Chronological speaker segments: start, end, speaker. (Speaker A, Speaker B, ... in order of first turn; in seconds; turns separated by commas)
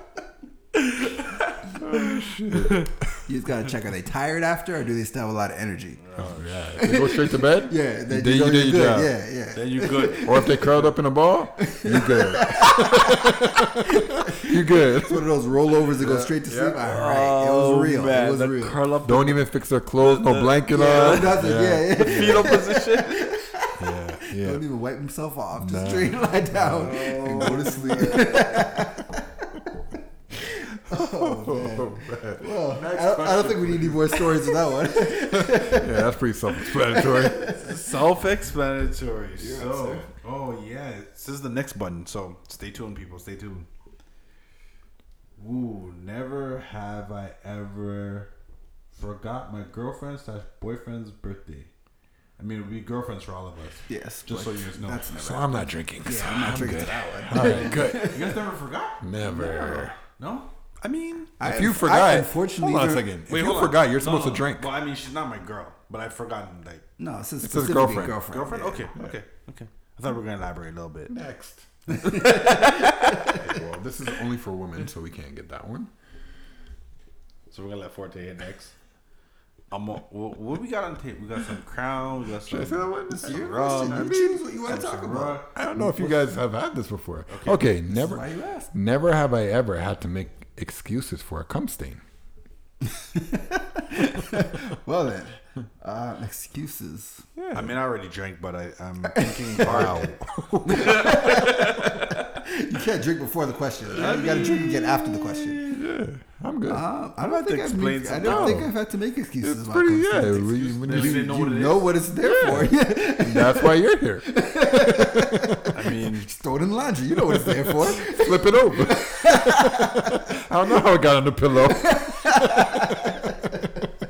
Speaker A: 0.7-2.9, Speaker B: 1.7-3.1, Speaker C: 3.2-6.0, Speaker A: 6.0-6.8, Speaker B: 6.2-9.1, Speaker C: 6.8-10.8, Speaker A: 9.5-10.8, Speaker B: 10.2-15.3, Speaker C: 11.6-18.8, Speaker B: 16.0-16.8, Speaker A: 16.8-23.3, Speaker B: 19.0-22.6, Speaker C: 20.7-29.8, Speaker B: 23.8-24.6, Speaker B: 25.6-28.4, Speaker A: 26.8-28.8, Speaker C: 30.4-37.8, Speaker B: 30.9-32.5, Speaker A: 32.7-34.5, Speaker B: 35.2-37.5, Speaker A: 37.4-43.7, Speaker C: 39.4-40.1, Speaker A: 45.4-48.3, Speaker A: 48.9-51.7, Speaker A: 52.4-55.1, Speaker C: 53.9-58.4, Speaker B: 55.2-58.3, Speaker A: 57.3-59.0, Speaker B: 59.0-60.0, Speaker C: 59.2-60.0, Speaker A: 60.0-61.4, Speaker C: 61.4-63.1, Speaker B: 61.4-64.7, Speaker A: 63.3-66.8, Speaker C: 67.0-68.9, Speaker B: 67.4-68.2, Speaker A: 68.3-71.1, Speaker B: 71.1-71.7, Speaker C: 71.9-73.5, Speaker A: 72.0-73.2, Speaker B: 73.3-75.9, Speaker A: 77.5-78.7, Speaker A: 79.7-85.5, Speaker B: 82.4-84.4, Speaker C: 83.1-86.2, Speaker B: 85.5-92.0, Speaker A: 87.3-87.7, Speaker C: 87.8-88.7, Speaker C: 92.8-97.3, Speaker B: 97.4-97.7, Speaker A: 97.5-100.1, Speaker C: 99.1-100.0, Speaker B: 99.6-101.3, Speaker C: 100.7-105.7, Speaker A: 100.7-102.0, Speaker A: 103.9-104.6, Speaker B: 104.0-106.8, Speaker C: 106.7-120.3, Speaker A: 107.2-108.6, Speaker B: 108.2-108.7, Speaker B: 109.4-111.3, Speaker A: 110.7-112.0, Speaker B: 112.2-115.7, Speaker A: 115.7-116.3, Speaker B: 117.2-123.5, Speaker C: 121.7-123.7